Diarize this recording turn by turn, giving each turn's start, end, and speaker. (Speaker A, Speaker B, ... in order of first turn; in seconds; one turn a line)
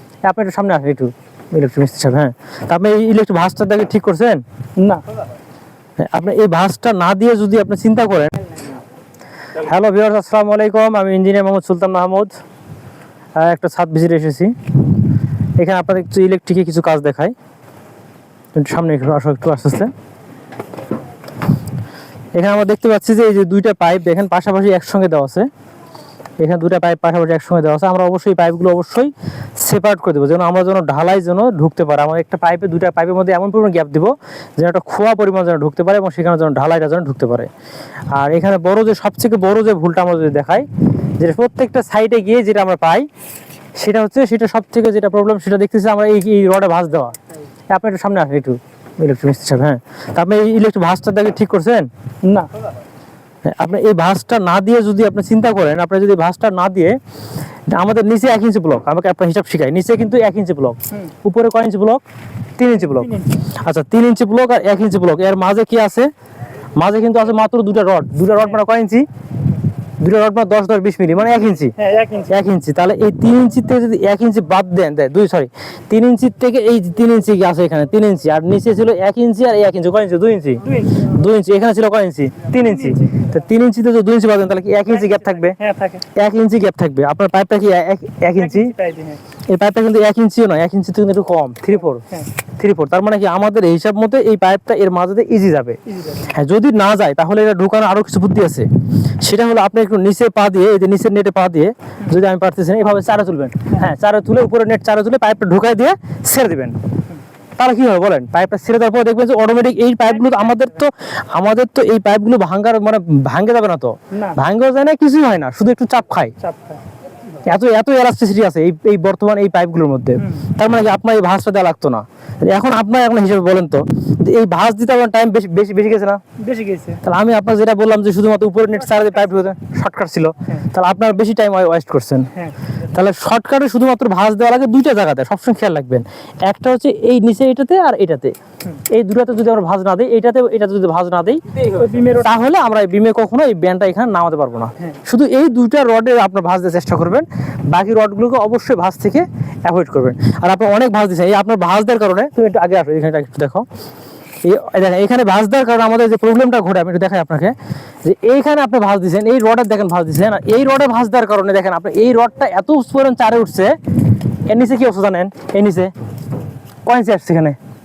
Speaker A: 0.2-4.4
Speaker B: 4.8-5.0
Speaker A: 6.0-8.5
Speaker A: 9.5-12.3
Speaker A: 13.4-14.9
Speaker A: 15.6-17.3
Speaker A: 18.5-19.9
Speaker A: 22.3-25.5
Speaker A: 26.4-37.5
Speaker A: 38.1-40.7
Speaker A: 41.2-43.1
Speaker A: 43.8-47.2
Speaker A: 47.7-51.9
Speaker B: 52.2-52.5
Speaker A: 53.5-57.0
Speaker A: 57.7-62.0
Speaker A: 62.6-66.1
Speaker B: 62.9-63.3
Speaker A: 66.8-69.0
Speaker A: 70.0-71.7
Speaker B: 71.8-72.3
Speaker A: 72.3-85.6
Speaker B: 80.7-81.1
Speaker B: 82.6-83.2
Speaker B: 85.0-86.0
Speaker A: 86.1-88.7
Speaker B: 88.4-89.2
Speaker A: 89.5-106.8
Speaker B: 96.0-96.2
Speaker A: 107.6-116.3
Speaker B: 114.1-114.4
Speaker B: 116.4-116.8
Speaker A: 117.4-126.2
Speaker B: 126.4-127.0
Speaker A: 127.0-132.3
Speaker A: 132.9-153.7
Speaker B: 141.6-142.3
Speaker A: 154.4-165.9
Speaker A: 166.8-167.6